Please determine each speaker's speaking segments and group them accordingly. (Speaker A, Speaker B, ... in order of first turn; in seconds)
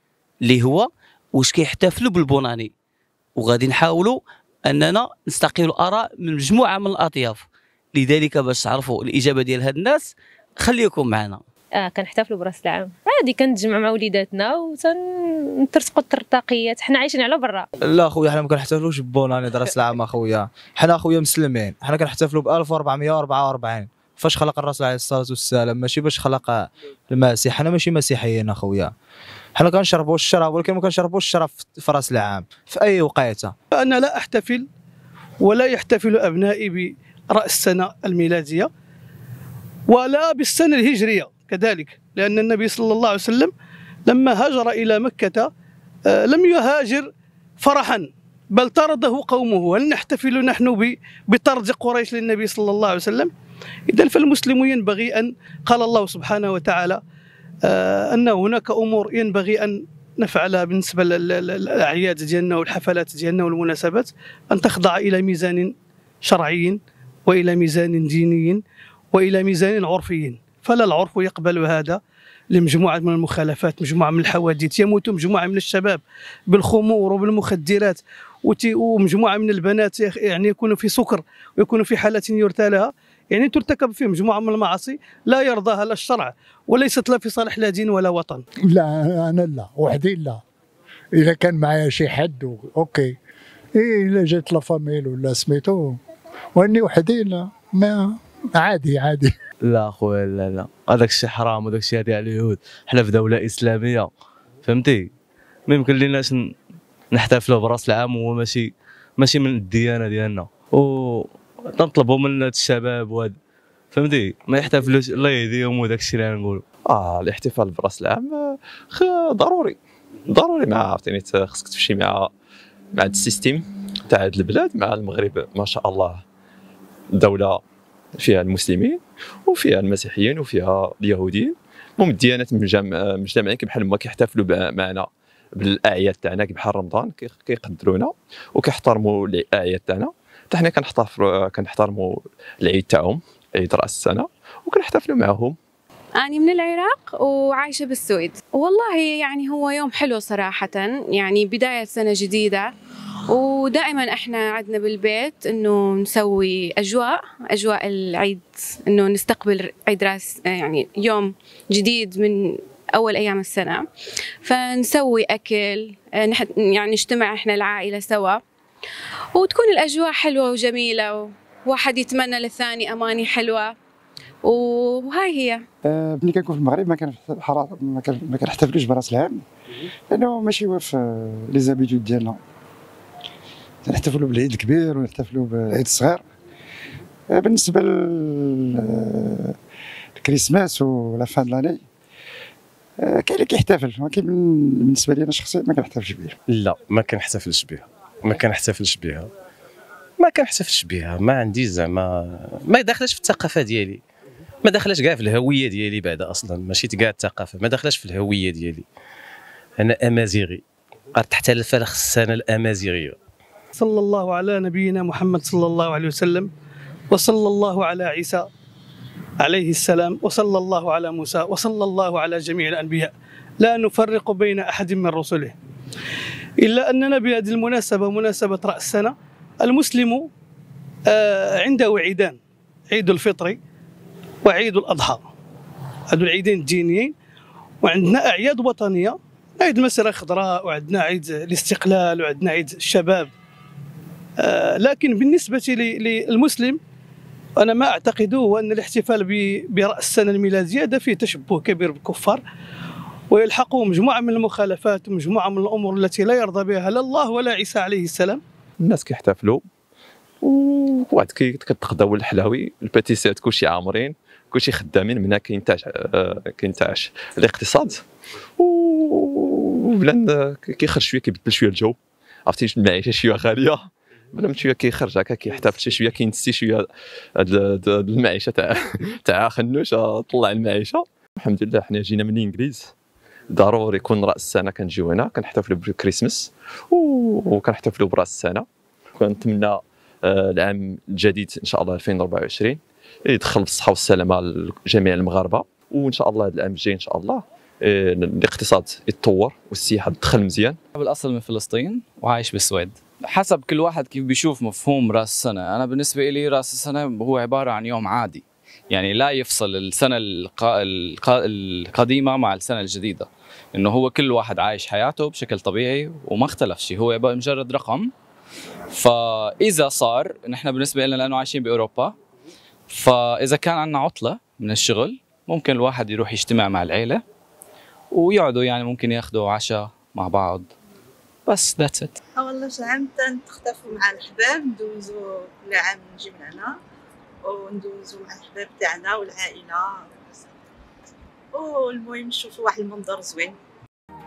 Speaker A: 0.4-2.7, 3.4-11.4
Speaker B: 11.8-15.0, 15.6-17.7
Speaker C: 17.9-28.9, 29.6-33.5
Speaker D: 33.7-34.7, 35.4-38.7, 39.9-43.5, 44.1-45.5, 46.1-53.3, 53.9-57.0, 57.7-65.7, 66.2-68.6, 69.1-72.0, 72.5-88.4, 213.8-216.5, 217.1-218.4, 219.4-225.6, 226.6-230.3, 231.1-232.4, 232.9-233.6, 234.4-235.2, 236.1-237.1, 237.8-243.3, 244.4-246.8, 247.6-252.4, 253.3-258.4
Speaker E: 88.7-90.4, 91.2-93.2, 93.8-96.0, 96.6-99.3
Speaker F: 99.6-104.1, 104.6-105.1, 105.7-106.5, 107.1-113.4, 113.9-116.6
Speaker G: 116.9-119.8, 120.3-122.3, 122.9-126.2, 127.1-127.6, 128.2-145.6, 258.8-259.6, 260.4-268.0, 268.6-276.9, 277.4-282.9, 283.5-300.8
Speaker H: 146.2-152.7, 153.3-163.8, 164.4-168.4, 169.3-173.7, 174.4-175.6
Speaker I: 175.8-179.4, 180.1-182.4, 183.8-186.2, 187.3-189.6, 190.2-191.8, 193.0-196.4
Speaker J: 196.5-199.3, 200.2-204.0, 204.6-208.9, 209.8-210.6, 211.2-213.2
Speaker K: 301.0-318.1, 318.9-322.1, 322.9-327.2, 328.1-330.7, 331.5-332.1
Speaker L: 332.4-336.7, 337.5-340.0, 341.6-343.5